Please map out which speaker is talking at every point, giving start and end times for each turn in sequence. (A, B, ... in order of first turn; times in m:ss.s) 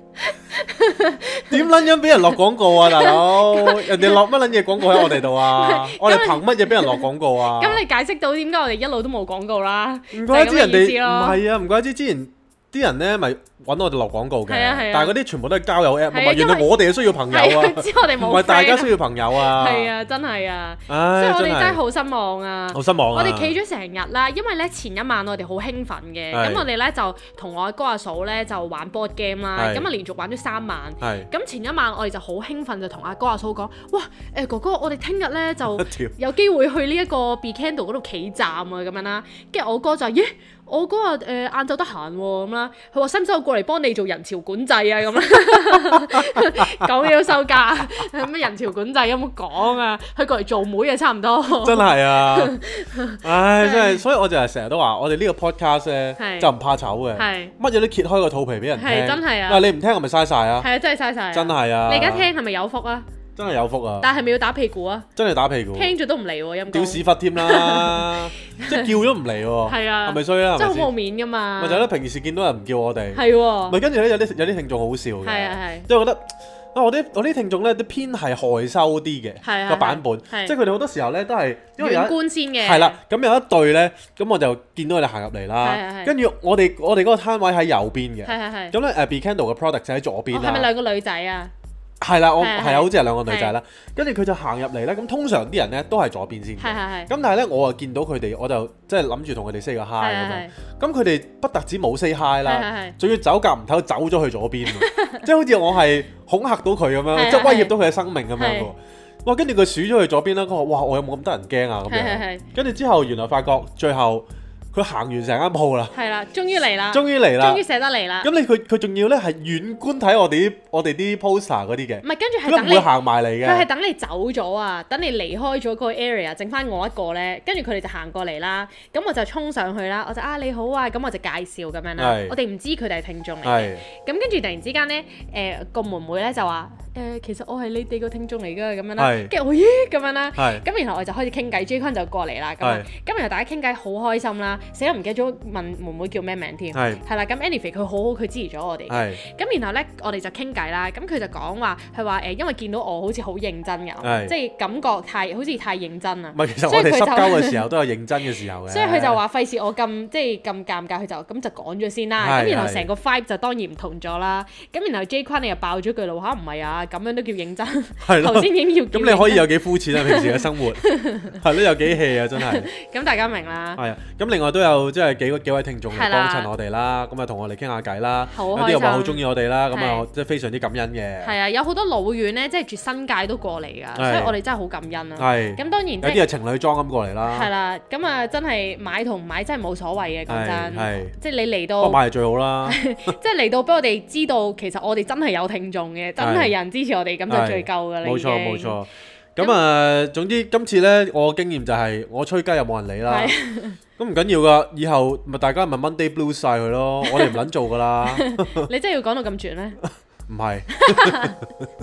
0:00.2-0:01.8 A
0:01.5-0:07.8 B
0:02.4-0:04.2 A
0:04.8-0:11.4 A
0:10.1-0:19.9 B
0:14.5-0:15.2 A
0:16.1-0:54.0 A
0:20.9-0:21.8 B
0:22.7-0:23.5 B
0:26.3-0:26.6 B
0:29.6-0:29.9 B
0:31.0-0:31.3 B
0:35.7-0:36.1 B
0:46.1-0:46.6 B
0:51.6-0:52.6 B
0:53.2-1:00.7 B
0:56.2-0:56.5 A
0:57.1-0:57.5 A
0:58.8-0:59.6 A
1:00.6-1:03.0 A
1:01.3-1:02.3 B
1:03.4-1:04.1 B
1:04.0-1:05.1 A
1:05.2-1:05.9 B
1:05.7-1:08.9 A
1:06.7-1:10.9 B
1:09.6-1:11.9 A
1:11.6-1:30.7 B
1:13.1-1:13.8 A
1:15.2-1:15.9 A
1:19.4-1:20.6 A
1:21.8-1:23.0 A
1:25.6-1:26.1 A
1:28.2-1:28.8 A
1:30.3-1:31.5 A
1:32.0-1:56.0 B
1:32.4-1:33.5 A
1:36.6-1:37.1 A
1:40.0-1:40.5 A
1:42.4-1:43.0 A
1:44.8-1:45.2 A
1:47.1-1:47.7 A
1:48.4-1:48.7 A
1:51.9-1:52.4 A
1:55.9-1:58.3 A
1:56.9-1:57.6 B
1:58.2-2:03.7 B
2:02.0-2:37.7 A
2:12.0-2:12.4 B
2:13.4-2:13.8 B
2:19.0-2:19.3 B
2:20.4-2:20.6 B
2:22.6-2:22.9 B
2:26.7-2:27.0 B
2:28.9-2:29.2 B
2:34.0-2:34.3 B
2:36.3-2:39.2 B
2:38.7-2:53.8 A
2:42.2-2:42.9 B
2:48.0-2:52.7 B
2:53.8-3:01.3 B
2:55.9-2:56.5 A
2:58.3-3:00.1 A
3:01.2-3:06.2 A
3:04.0-3:04.3 B
3:05.2-3:07.5 B
3:07.3-3:12.0 A
3:10.3-3:11.1 B
3:11.8-3:12.8 B
3:12.6-3:18.8 A
3:16.2-3:16.5 B
3:17.3-3:23.4 B
3:23.0-3:23.8 A
3:24.0-3:28.7 B
3:27.0-3:27.4 A
3:28.0-3:29.8 A
3:30.3-3:31.7 B
3:30.7-3:31.4 A